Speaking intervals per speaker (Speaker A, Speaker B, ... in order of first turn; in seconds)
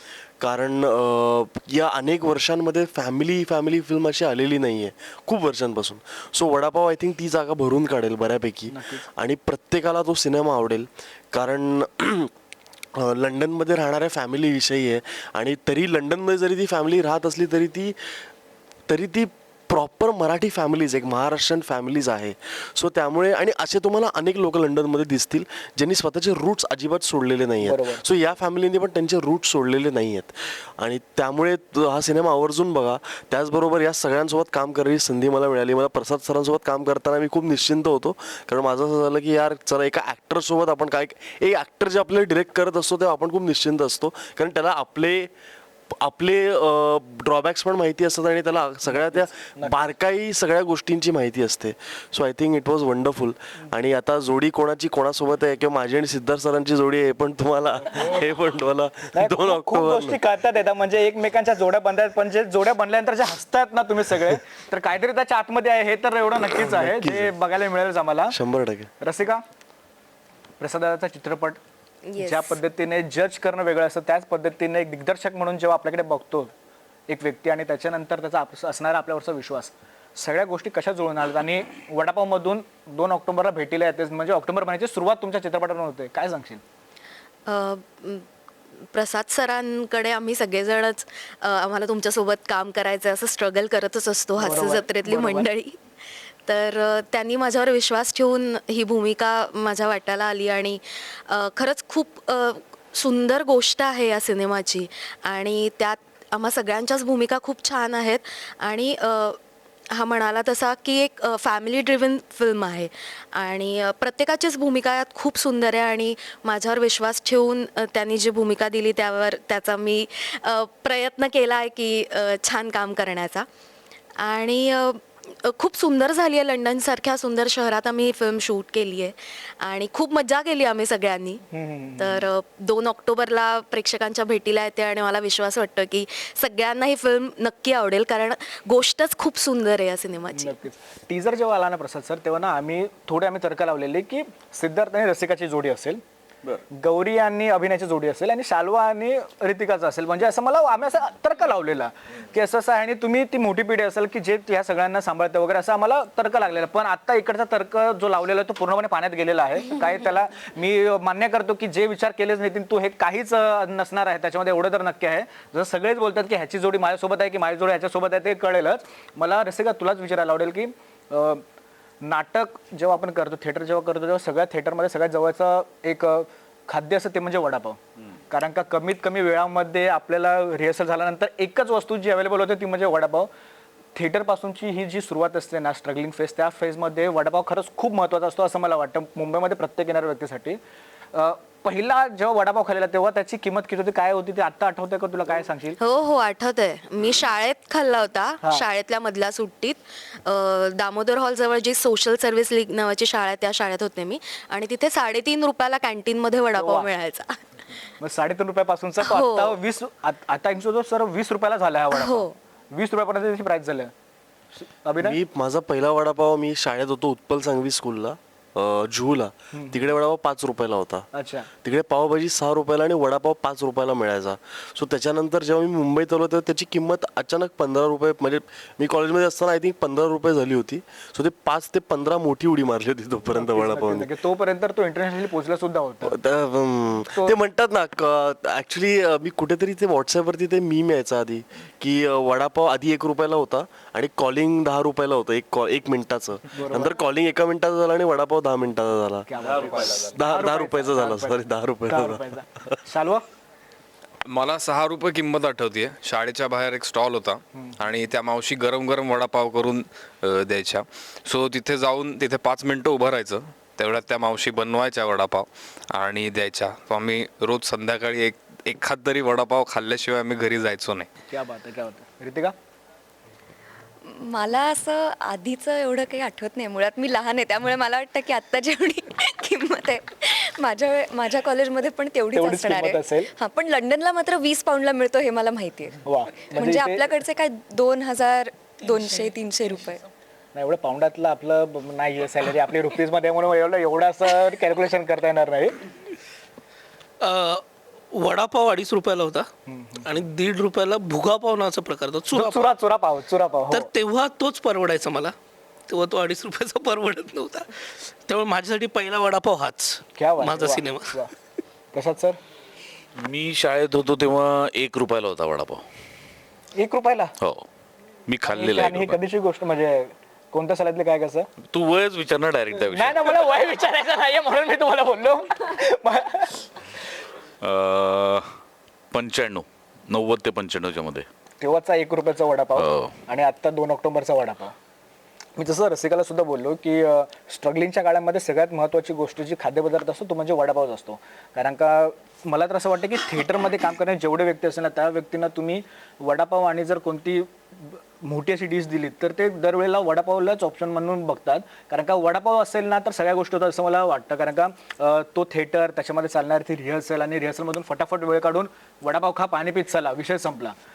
Speaker A: 0.4-12.3, 12.9-18.2, 18.9-45.3, 45.9-60.2, 66.5-67.3, 68.3-68.9, 215.0-221.1, 221.6-234.1, 236.0-252.2
Speaker B: 8.7-9.1, 27.6-28.0, 48.9-49.8, 59.1-68.4, 69.0-69.4, 70.6-71.6, 72.2-76.5, 77.1-86.6, 94.4-95.5, 131.5-132.2, 140.3-146.0, 146.7-171.4, 172.0-183.3, 183.9-190.6, 191.1-195.8, 206.6-206.9, 208.0-213.9, 214.6-215.2, 219.5-219.9, 221.1-221.5, 233.3-236.2, 246.6-246.9, 249.3-253.2, 257.6-257.9, 271.3-272.6, 282.4-283.3, 286.1-287.1, 290.5-295.8, 299.7-300.1, 302.3-303.9, 310.2-311.3, 311.9-312.4, 316.8-317.3, 318.5-321.5, 322.8-326.6, 331.6-334.8, 335.6-360.8
Speaker C: 72.1-72.6, 274.1-290.0
Speaker D: 87.5-88.3, 88.9-95.8, 96.5-109.4, 109.9-123.5, 124.2-131.4, 132.0-140.6, 195.8-207.4, 209.0-209.6, 211.9-212.3
Speaker E: 254.3-271.1
Speaker F: 297.2-299.5, 300.0-302.7, 303.7-305.3, 305.9-311.2
Speaker G: 313.2-315.8, 317.4-317.7, 318.3-319.2, 321.6-323.3, 327.6-328.6, 329.1-331.3, 332.8-333.2